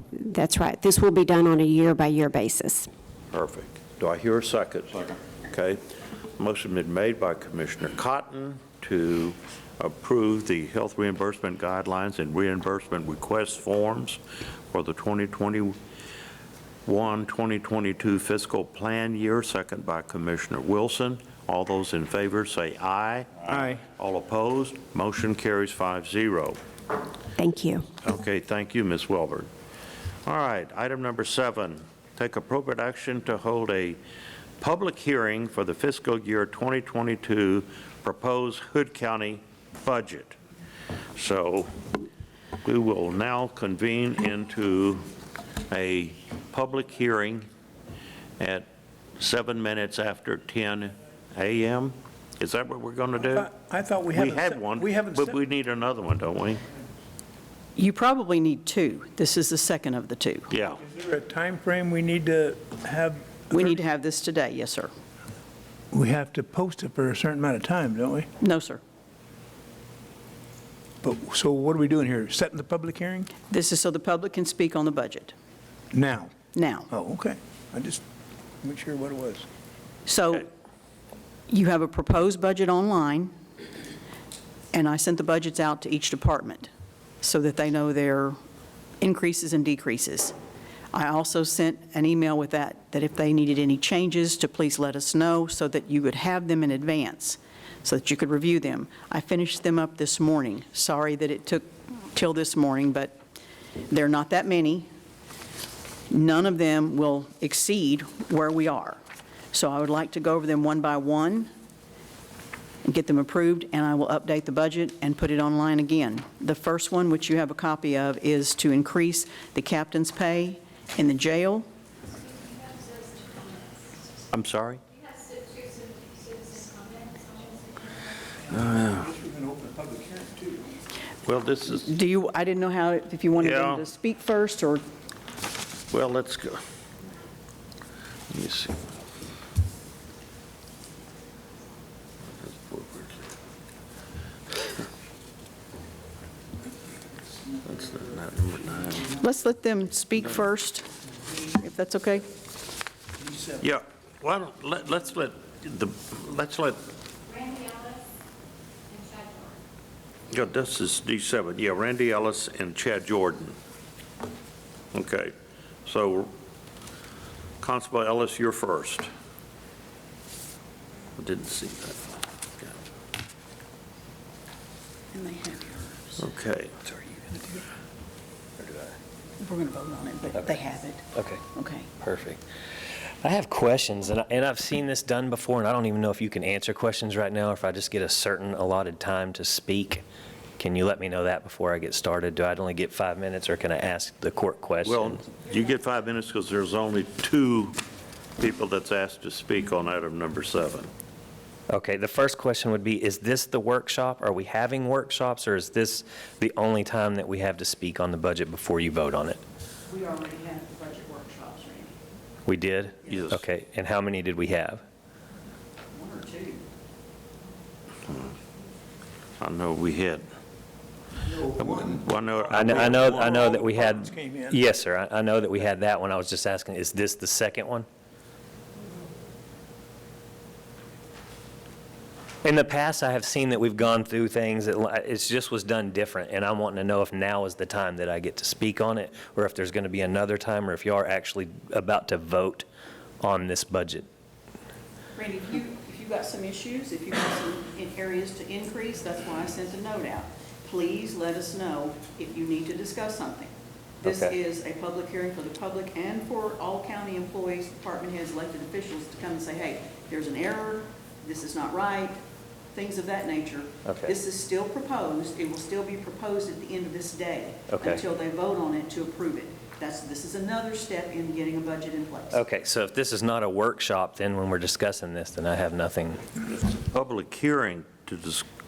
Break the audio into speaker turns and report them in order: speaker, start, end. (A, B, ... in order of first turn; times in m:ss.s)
0:00.2-0:02.9 A
0:03.3-0:05.8 B
0:06.4-0:15.8 B
0:16.9-0:26.6 B
0:23.5-0:23.8 C
0:27.4-0:27.9 A
0:28.0-0:29.5 B
0:30.2-0:34.0 B
0:34.6-0:40.4 B
0:41.2-0:41.7 B
0:42.6-0:45.1 B
0:45.7-0:47.5 B
0:48.4-0:48.7 B
0:49.2-0:53.5 B
0:53.2-0:55.4 C
0:54.1-0:56.6 B
0:57.8-1:00.5 D
1:00.5-1:00.8 B
1:00.8-1:03.8 C
1:03.5-1:04.9 D
1:05.9-1:08.3 C
1:08.4-1:08.8 D
1:11.0-1:13.3 C
1:13.5-1:15.3 D
1:15.9-1:16.3 C
1:16.5-1:16.9 D
1:16.9-1:18.0 C
1:18.6-1:19.5 C
1:20.1-1:20.5 D
1:21.5-1:23.3 D
1:24.7-1:26.7 D
1:27.2-1:28.4 D
1:29.0-1:30.3 D
1:30.9-1:43.2 D
1:43.9-1:44.9 D
1:46.1-1:49.0 D
1:49.5-1:51.5 D
1:52.8-2:01.7 D
2:02.6-2:03.5 E
2:04.3-2:04.8 B
2:05.6-2:07.6 E
2:08.5-2:10.8 C
2:08.5-2:09.0 B
2:11.2-2:11.9 B
2:11.8-2:14.8 D
2:13.4-2:13.8 B
2:15.9-2:16.6 B
2:18.3-2:18.9 B
2:22.4-2:23.3 B
2:27.6-2:29.2 B
2:29.2-2:30.9 D
2:31.5-2:32.3 D
2:33.6-2:36.8 B
2:37.5-2:38.0 E
2:38.9-2:39.5 E
2:40.3-2:43.6 B
2:44.9-2:45.3 B
2:45.8-2:46.3 B
2:47.6-2:49.1 B
2:51.2-2:52.7 B
2:55.1-2:56.1 D
2:56.2-2:56.9 B
2:57.1-2:57.6 D
2:58.6-2:58.9 F
2:59.4-3:01.9 D
3:01.1-3:01.4 F
3:02.0-3:02.4 F
3:03.2-3:10.0 F
3:10.6-3:15.2 F
3:14.8-3:17.8 B
3:18.4-3:20.9 B
3:21.7-3:29.4 F
3:29.9-3:32.0 D
3:32.5-3:34.8 F
3:33.1-3:33.4 B
3:35.9-3:36.6 D
3:39.4-3:40.3 B
3:41.2-3:44.6 C
3:41.6-3:43.2 B
3:42.5-3:47.9 F
3:52.4-4:02.7 F
4:03.2-4:04.1 F
4:05.2-4:22.2 D
4:14.0-4:14.3 F
4:22.7-4:32.4 D
4:23.8-4:24.2 F
4:27.7-4:28.0 F
4:32.3-4:36.2 F
4:36.5-4:38.5 B